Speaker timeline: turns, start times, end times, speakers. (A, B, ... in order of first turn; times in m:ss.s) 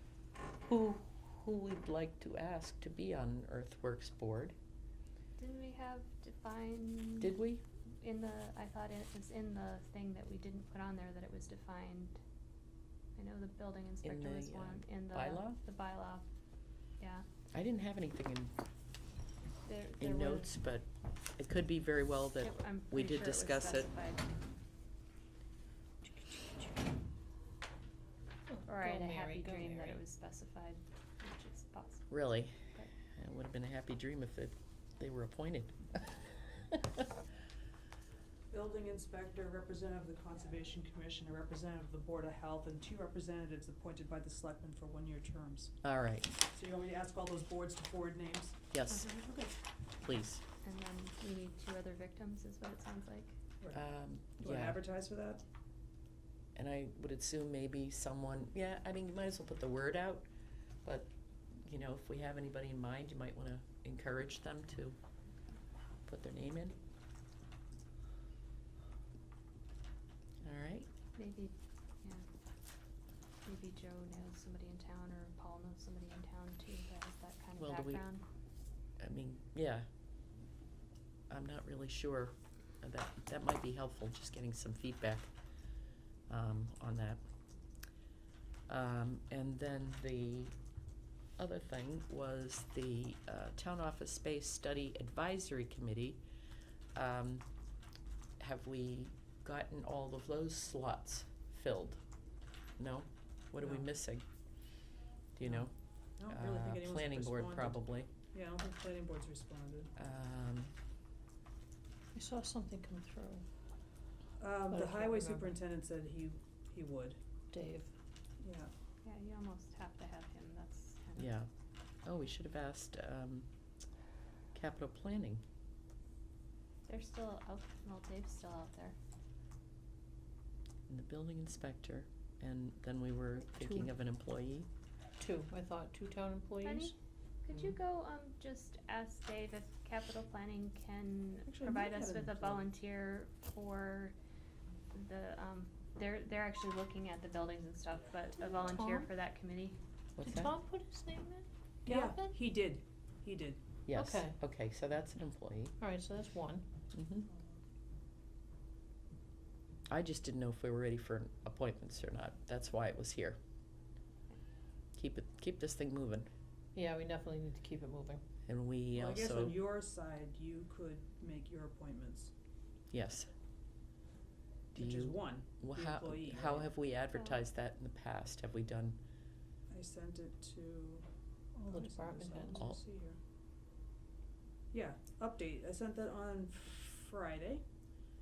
0:00.6-0:04.6 A
0:05.4-0:07.4 B
0:07.2-0:07.6 A
0:08.0-0:12.2 B
0:13.2-0:16.2 B
0:14.0-0:15.6 A
0:17.0-0:17.2 B
0:17.5-0:18.5 A
0:19.6-0:20.5 B
0:20.0-0:23.9 A
0:22.4-0:24.3 B
0:26.1-0:26.7 C
0:28.5-0:30.0 C
0:28.7-0:32.9 B
0:32.1-0:36.0 A
0:38.5-0:45.7 D
0:45.8-0:46.3 A
0:46.5-0:48.6 D
0:48.7-0:49.2 A
0:48.9-0:49.3 B
0:50.0-0:50.4 A
0:50.6-0:53.4 B
0:53.7-0:54.8 A
0:54.4-0:55.4 D
0:56.6-1:00.3 A
1:00.8-1:05.0 A
1:06.1-1:06.8 A
1:10.4-1:10.9 A
1:11.2-1:12.3 B
1:13.4-1:18.2 B
1:17.6-1:18.0 A
1:19.0-1:19.9 A
1:21.3-1:25.3 A
1:26.3-1:27.2 A
1:28.7-1:30.5 A
1:31.4-1:36.2 A
1:37.0-1:37.5 A
1:38.4-1:42.0 A
1:42.8-1:44.2 A
1:43.6-1:43.8 D
1:45.4-1:45.7 A
1:45.4-1:49.9 D
1:46.3-1:48.1 A
1:50.0-1:50.7 A
1:52.1-1:53.4 C
1:54.4-1:57.2 D
1:54.7-1:55.5 C
1:57.5-1:57.9 C
1:58.4-1:58.7 D
1:59.0-2:01.3 B
2:01.2-2:01.5 A
2:02.0-2:03.5 A
2:04.5-2:05.4 A
2:06.9-2:09.0 B
2:10.9-2:14.7 A
2:13.6-2:13.9 C
2:15.2-2:16.9 C
2:16.6-2:16.9 B
2:17.4-2:24.2 B
2:21.5-2:22.7 D
2:24.9-2:29.8 B
2:28.8-2:29.1 C
2:30.2-2:30.5 A
2:30.2-2:32.4 C
2:31.9-2:33.6 D
2:33.9-2:35.7 A
2:33.9-2:34.4 C
2:35.8-2:36.7 C
2:36.9-2:37.3 A
2:39.9-2:43.4 A
2:45.0-2:46.3 A
2:46.8-2:48.2 C
2:48.5-2:49.6 A
2:49.0-2:52.3 D
2:52.9-2:53.3 A
2:54.7-2:59.0 A
2:54.8-2:56.7 D
2:57.1-2:57.4 B
2:59.7-3:03.2 D
3:01.7-3:02.6 C
3:04.7-3:07.6 D